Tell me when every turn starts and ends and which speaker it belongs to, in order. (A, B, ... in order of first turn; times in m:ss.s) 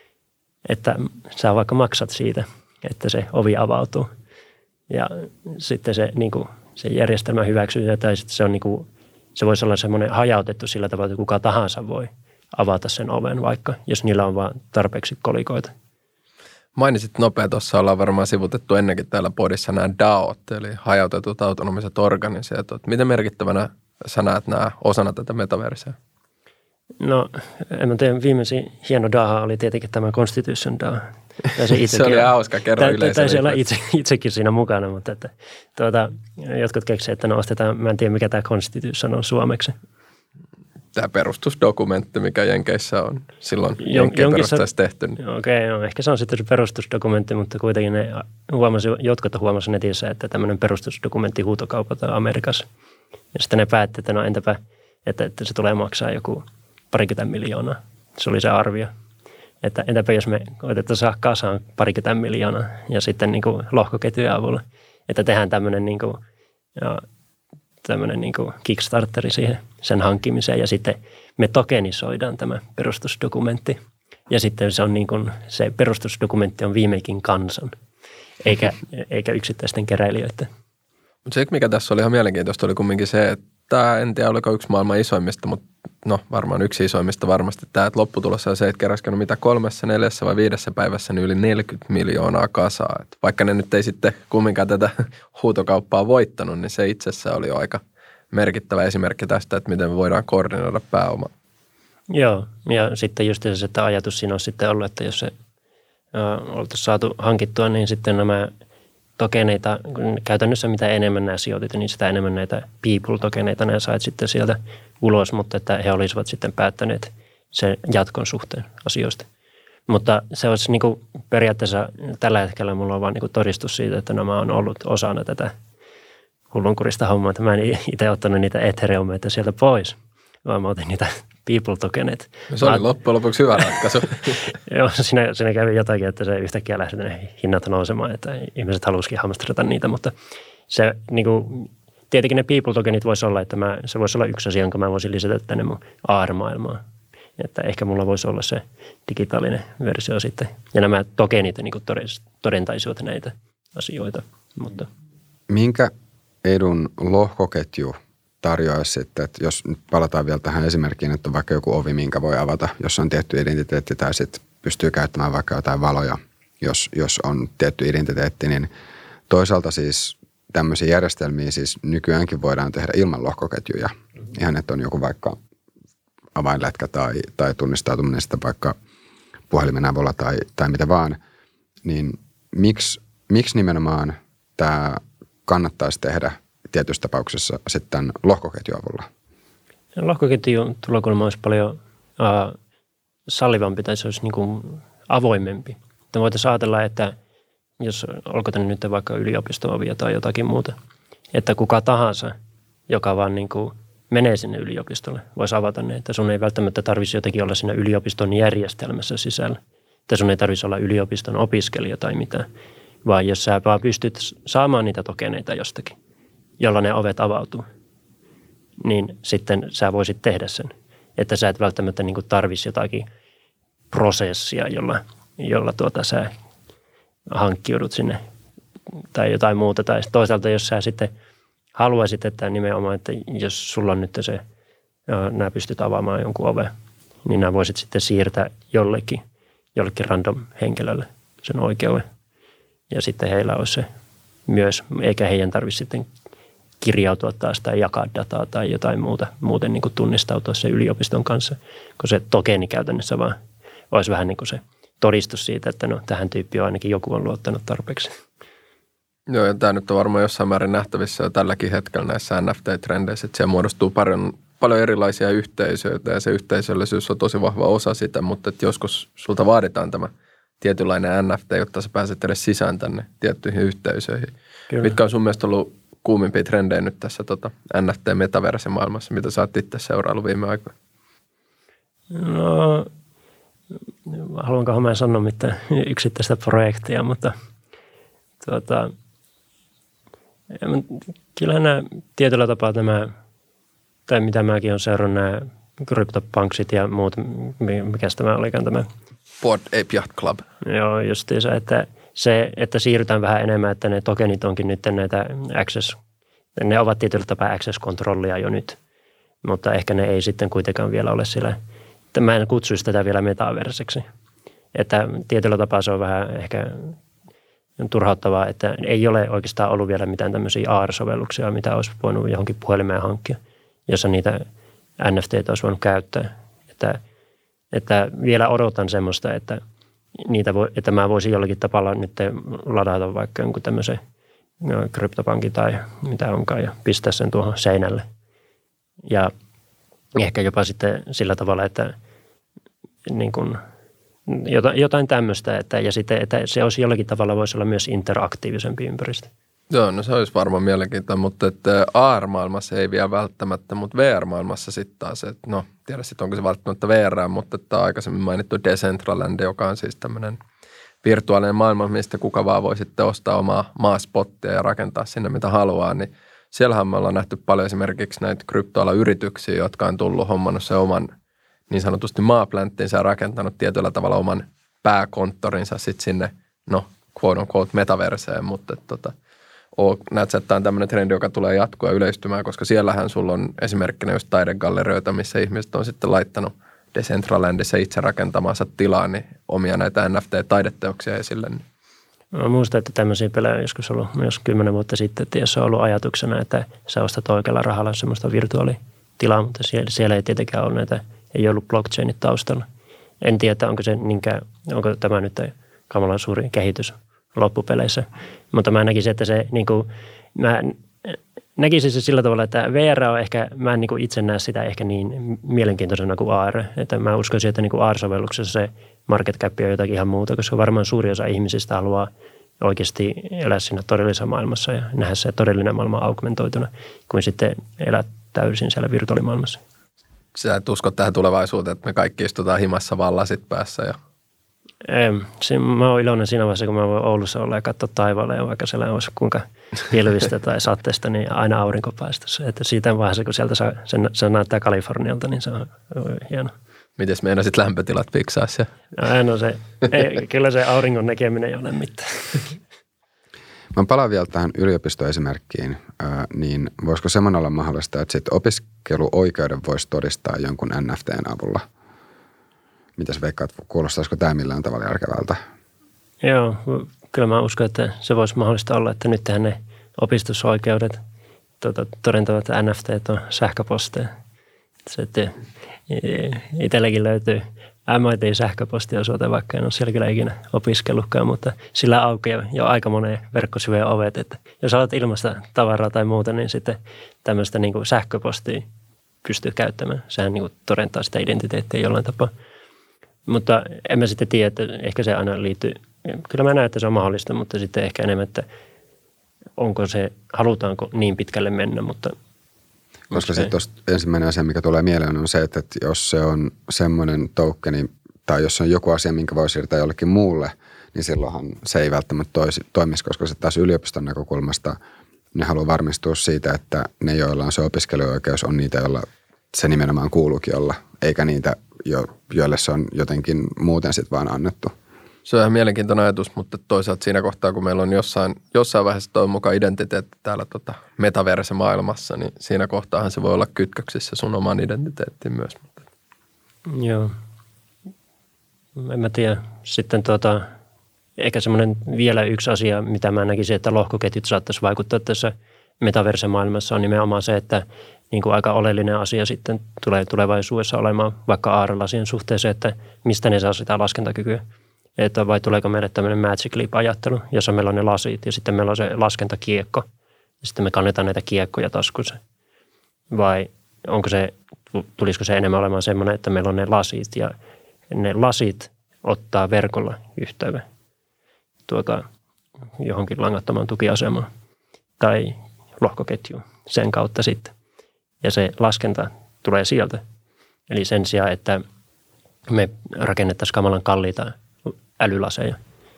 0:00.7-0:04.1 A
0:04.9-0:15.7 A
0:16.8-0:26.0 B
0:27.0-0:39.7 A
0:31.8-0:33.6 B
0:40.9-0:45.2 B
0:43.8-0:44.6 A
0:45.2-0:52.7 A
0:53.3-0:58.9 A
0:59.6-1:06.2 A
1:06.8-1:07.0 A
1:07.8-1:13.8 A
1:14.3-1:17.7 A
1:18.4-1:20.5 A
1:21.3-1:37.8 B
1:38.3-1:41.3 B
1:42.1-1:45.3 A
1:46.1-1:48.5 A
1:49.2-1:59.3 A
1:59.9-2:05.5 A
2:06.5-2:12.8 A
2:12.5-2:14.5 B
2:14.7-2:20.1 A
2:20.7-2:26.8 A
2:27.4-2:34.9 A
2:35.5-2:35.9 C
2:36.4-2:48.7 C
2:49.3-2:55.4 C
2:56.4-2:58.8 C
2:59.5-3:01.2 C
3:01.8-3:09.1 C
3:10.0-3:12.6 A
3:13.3-3:17.1 A
3:17.8-3:20.8 A
3:21.3-3:22.3 A
3:22.9-3:32.5 A
3:33.0-3:36.0 A
3:36.6-3:37.6 A
3:38.8-3:43.1 A
3:43.9-3:46.3 A
3:47.3-3:48.2 A
3:49.1-3:51.1 A
3:51.8-3:54.4 A
3:55.1-3:56.7 A
3:57.2-3:59.2 A
3:59.8-4:02.1 A
4:02.9-4:03.9 A
4:04.5-4:06.1 A
4:06.8-4:13.4 A
4:13.9-4:18.2 A
4:19.3-4:40.7 B
4:42.1-4:42.9 A
4:44.1-4:47.4 A
4:48.4-4:48.9 A
4:50.5-4:53.1 A
4:54.1-4:58.9 A
4:59.4-5:00.5 B
5:00.6-5:06.0 A
5:06.6-5:08.8 A
5:09.4-5:11.6 A
5:12.1-5:14.0 A
5:14.8-5:17.0 A
5:17.8-5:24.4 A
5:25.0-5:27.0 A
5:27.7-5:29.6 A
5:30.2-5:34.0 A
5:34.6-5:38.1 A
5:40.2-5:42.0 A
5:43.1-5:43.6 A
5:44.3-5:49.3 A
5:49.7-6:00.4 B
6:01.0-6:11.1 B
6:11.7-6:19.1 B
6:19.8-6:31.6 B
6:32.3-6:42.7 A
6:43.2-7:02.1 A
7:02.6-7:09.6 A
7:10.4-7:14.0 B
7:14.8-7:26.5 A
7:27.0-7:28.7 B
7:29.0-7:32.6 A
7:33.7-7:41.6 C
7:43.0-7:45.4 C
7:46.2-7:51.0 A
7:51.6-7:54.1 A
7:54.9-7:55.4 A
7:55.9-8:08.6 A
8:09.2-8:12.3 A
8:13.3-8:18.5 A
8:19.6-8:22.2 A
8:23.1-8:23.5 A
8:23.1-8:34.8 C
8:35.3-8:44.7 C
8:45.2-8:55.8 B
8:56.7-8:57.2 A
8:58.8-9:00.5 A
9:01.2-9:14.4 A
9:15.0-9:19.9 A
9:20.4-9:22.2 A
9:23.1-9:27.3 A
9:27.9-9:30.6 A
9:31.7-9:32.1 A
9:32.8-9:34.3 A
9:35.0-9:37.5 A
9:38.2-9:40.0 A
9:40.7-9:41.6 A
9:42.5-9:45.6 A